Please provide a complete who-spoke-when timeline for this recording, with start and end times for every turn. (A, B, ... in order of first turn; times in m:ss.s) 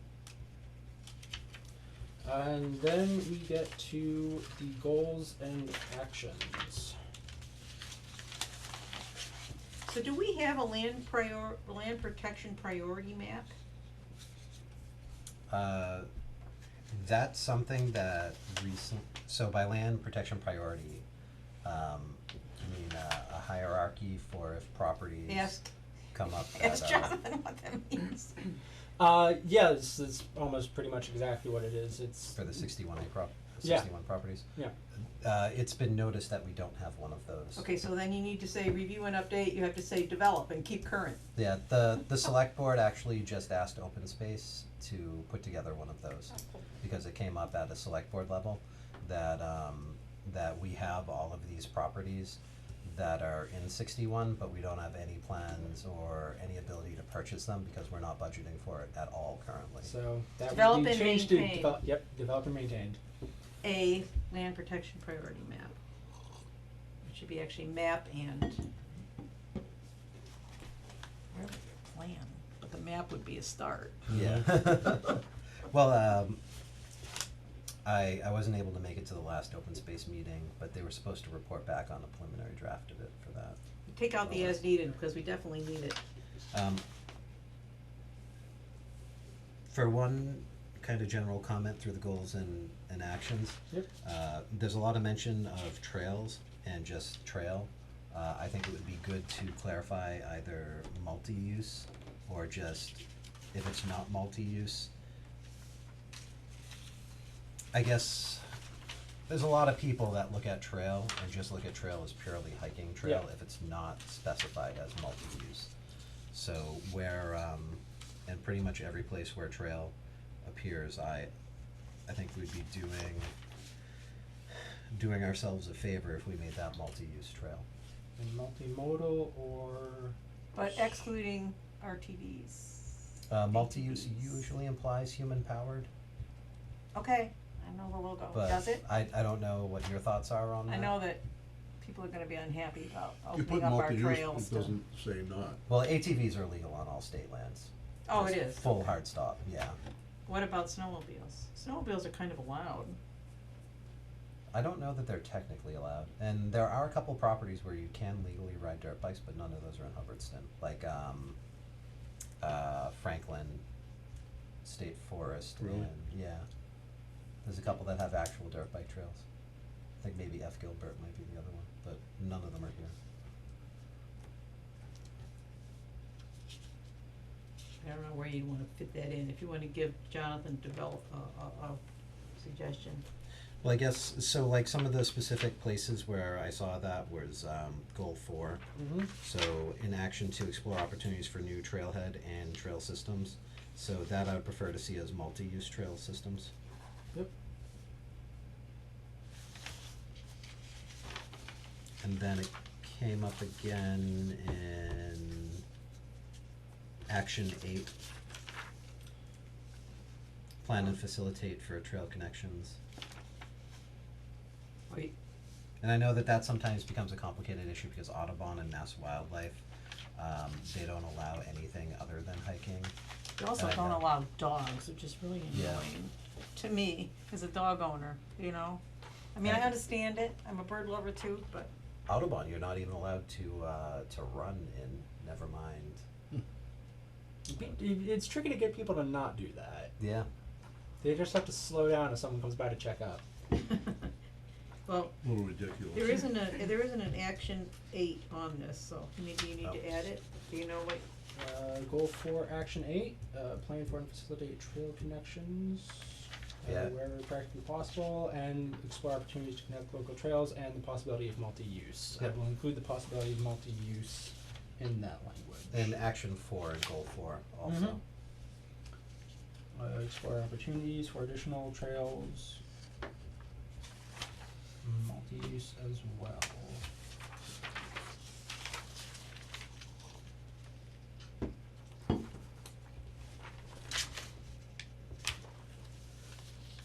0:02.2-0:07.0 A
0:09.9-0:13.5 B
0:15.5-0:16.1 C
0:16.9-0:21.0 C
0:21.6-0:25.5 C
0:25.3-0:25.7 B
0:26.1-0:27.1 C
0:26.5-0:28.6 B
0:29.0-0:32.4 A
0:32.4-0:34.4 C
0:33.6-0:33.9 A
0:35.2-0:37.6 C
0:37.6-0:41.2 B
0:41.4-0:59.9 C
0:59.8-1:03.0 A
1:00.5-1:01.8 B
1:03.6-1:05.8 B
1:07.0-1:08.6 B
1:11.3-1:14.0 B
1:14.1-1:16.4 C
1:17.8-1:23.6 C
1:23.9-1:26.0 B
1:24.3-1:24.6 C
1:26.5-1:26.8 C
1:29.7-1:43.0 C
1:43.5-1:44.9 C
1:47.7-1:48.5 C
1:49.3-1:55.7 C
1:56.3-2:01.3 C
2:02.1-2:03.3 C
2:04.9-2:07.6 C
2:08.2-2:10.2 A
2:10.5-2:13.0 B
2:13.3-2:15.9 C
2:13.5-2:14.2 B
2:17.0-2:18.8 B
2:18.3-2:21.0 C
2:20.7-2:21.2 B
2:21.8-2:24.8 B
2:23.3-2:25.6 D
2:25.7-2:29.8 C
2:28.1-2:28.7 B
2:30.3-2:33.0 B
2:34.5-2:41.4 C
2:42.4-2:43.6 C
2:44.6-2:46.5 C
2:45.6-2:45.9 D
2:47.4-2:49.2 C
2:50.0-2:53.0 C
2:57.8-3:01.8 B
3:02.4-3:03.0 B
3:03.6-3:08.6 C
3:08.8-3:09.1 A
3:09.2-3:16.5 C
3:22.0-3:25.6 C
3:27.1-3:28.0 C
3:30.6-3:32.8 C
3:35.8-3:39.6 C
3:40.2-3:42.9 C
3:43.4-3:48.8 B
3:43.6-3:44.1 C
3:45.5-3:45.9 C
3:49.3-3:51.7 B
3:49.4-3:49.7 C
3:52.1-3:56.0 C
3:57.5-3:59.9 A
4:00.0-4:00.3 C
4:01.0-4:03.2 A
4:03.5-4:04.1 B
4:04.9-4:05.2 B
4:05.2-4:06.3 D
4:05.9-4:11.0 B
4:11.4-4:25.9 A
4:16.6-4:16.9 C
4:25.7-4:28.0 C
4:27.7-4:28.0 A
4:29.7-4:32.6 A
4:34.8-4:36.8 A